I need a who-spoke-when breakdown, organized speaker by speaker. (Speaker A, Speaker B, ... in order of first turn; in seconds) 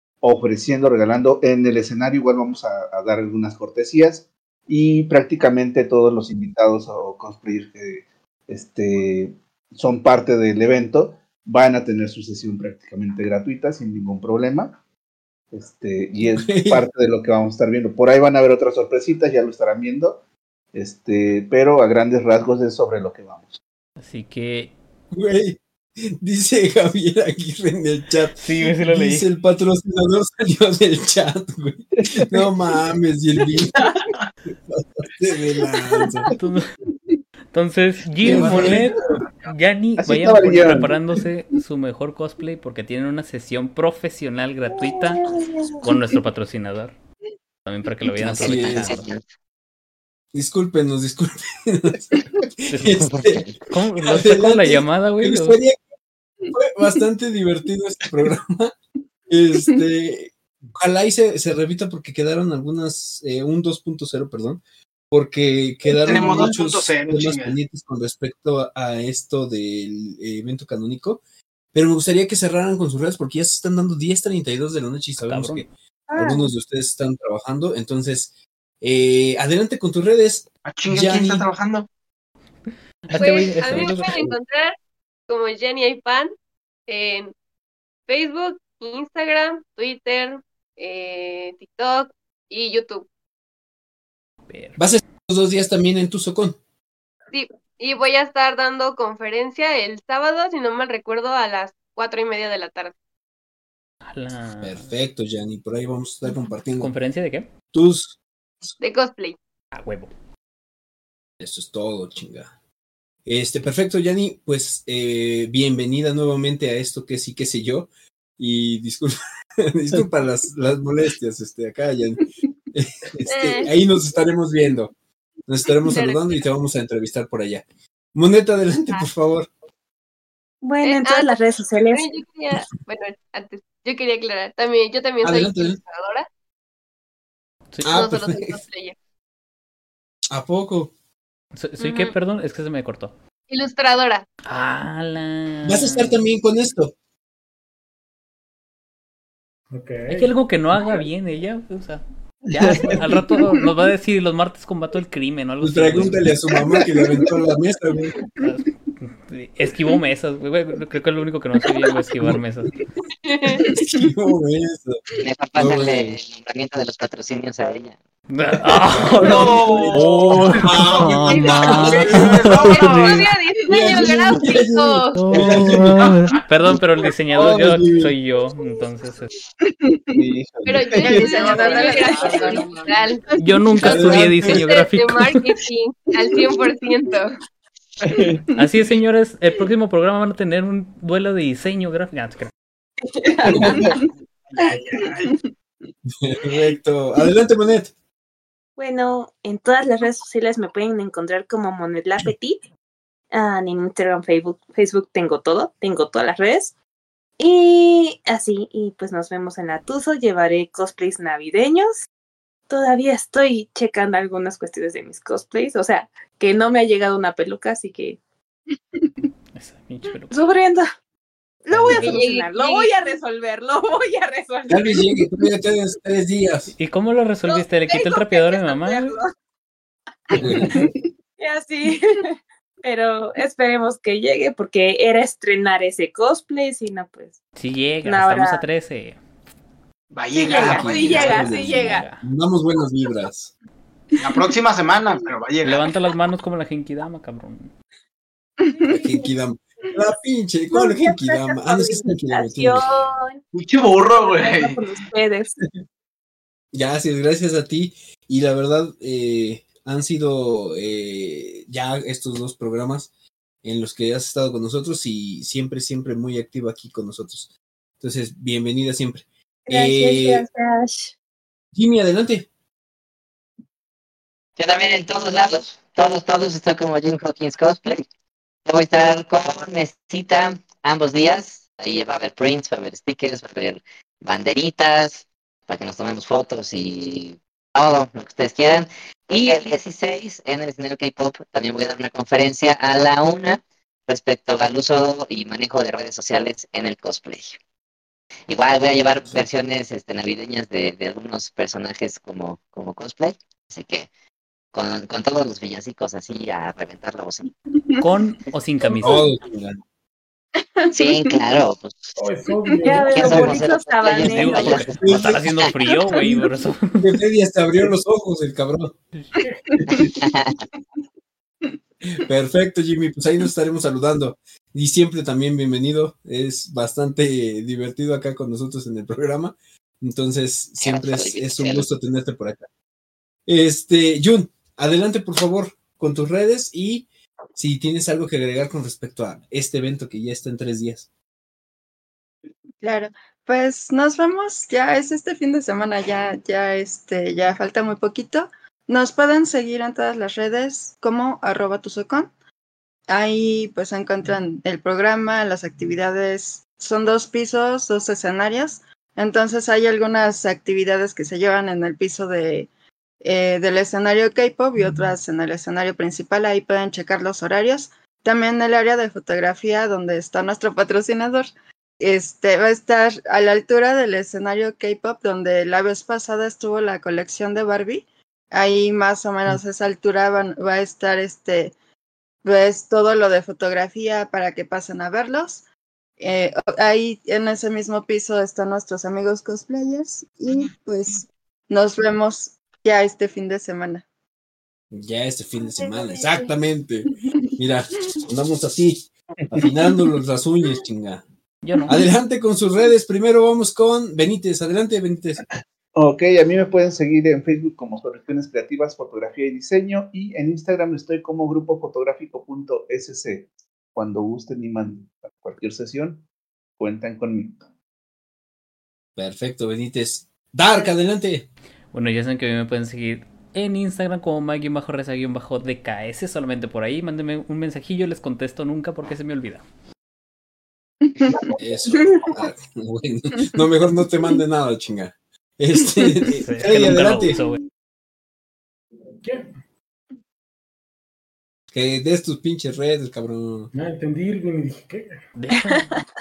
Speaker A: 0.2-14.8, 15.5-20.2, 20.7-23.6, 32.0-32.5, 38.3-38.8, 40.0-41.0, 66.1-66.5, 152.5-153.2, 156.7-157.2, 180.2-181.9, 188.1-188.4, 193.5-193.9, 319.8-320.1, 406.0-416.2, 416.8-417.6
Speaker B: 16.3-16.9, 25.1-33.9, 34.7-36.3, 38.2-39.1, 48.2-49.0, 50.3-53.5, 54.0-55.8, 56.5-58.8, 59.3-71.2, 71.7-78.3, 78.8-81.5, 94.8-96.6, 104.6-106.9, 107.7-108.2, 111.4-112.5, 113.3-124.9, 125.5-129.5, 135.2-135.8, 137.8-138.6, 140.3-140.9, 145.7-146.9, 152.5-152.9, 155.6-158.2, 163.7-165.0, 165.6-166.2, 169.1-169.4, 170.0-172.8, 173.7-176.0, 177.3-178.2, 183.8-184.8, 193.5-193.8, 196.2-197.9, 221.7-222.2, 224.7-226.7, 230.4-230.7, 240.5-243.5, 248.9-252.8, 256.7-263.1, 263.6-270.5, 271.8-272.5, 309.0-309.8, 315.0-315.5, 317.0-318.9, 322.2-332.6, 333.5-341.1, 394.9-401.2, 401.9-405.4, 419.2-421.5, 431.6-437.4, 441.7-443.7
Speaker C: 24.0-24.8, 28.4-29.3, 36.3-36.7, 37.5-45.2, 45.8-46.9, 47.6-49.1, 52.7-53.1, 53.7-55.6, 75.2-75.7, 83.1-84.3, 94.5-94.8, 104.1-104.9, 106.8-107.5, 109.7-110.1, 137.7-138.0, 141.6-143.1, 144.4-146.2, 150.1-152.0, 152.7-156.3, 158.4-162.7, 168.3-173.3, 175.2-179.3, 183.4-185.3, 188.6-192.5, 219.6-220.3, 226.8-229.2, 237.6-239.2, 240.9-242.2, 245.6-247.7, 308.0-309.3, 314.1-317.2, 401.6-402.0, 421.9-429.6, 436.4-437.6, 445.4-445.9
Speaker D: 44.8-45.2, 76.1-76.4, 130.6-132.2, 193.5-193.8, 198.8-202.6, 203.3-206.7, 207.4-212.1, 212.7-218.2, 220.3-220.9, 221.7-225.3, 227.4-229.3, 230.3-230.9, 231.4-232.3, 232.8-237.4, 238.0-238.7, 240.4-242.1, 248.9-249.3, 250.7-253.4, 254.1-255.6, 269.7-271.1, 312.8-314.9
Speaker E: 48.2-49.2, 53.0-53.6, 165.2-168.0, 274.6-278.1, 278.7-297.6, 298.5-304.1, 304.7-307.5, 310.9-312.2, 313.1-315.8, 320.2-320.6, 330.8-331.9
Speaker F: 66.0-67.6, 80.7-81.9, 169.2-170.3, 171.3-173.2, 176.0-176.4, 181.3-182.8, 194.6-195.3, 240.1-241.4, 244.2-245.9, 253.5-254.8
Speaker G: 83.2-84.7, 85.3-86.3, 86.9-87.3, 88.1-93.1, 97.3-102.9, 108.8-109.4, 123.3-123.7, 125.8-126.4, 130.8-136.3, 137.9-138.9, 141.8-142.2, 143.5-144.3, 163.3-163.6, 172.9-175.2, 180.7-183.2, 183.8-187.4, 222.0-222.9
Speaker H: 149.7-150.3, 312.2-313.7, 439.2-439.5, 443.7-445.2
Speaker I: 179.6-180.1, 181.0-183.3, 307.7-308.0, 310.6-311.7, 319.9-320.1, 342.8-352.3, 353.1-362.7, 363.2-381.7, 382.4-385.6, 386.2-394.0, 431.2-431.6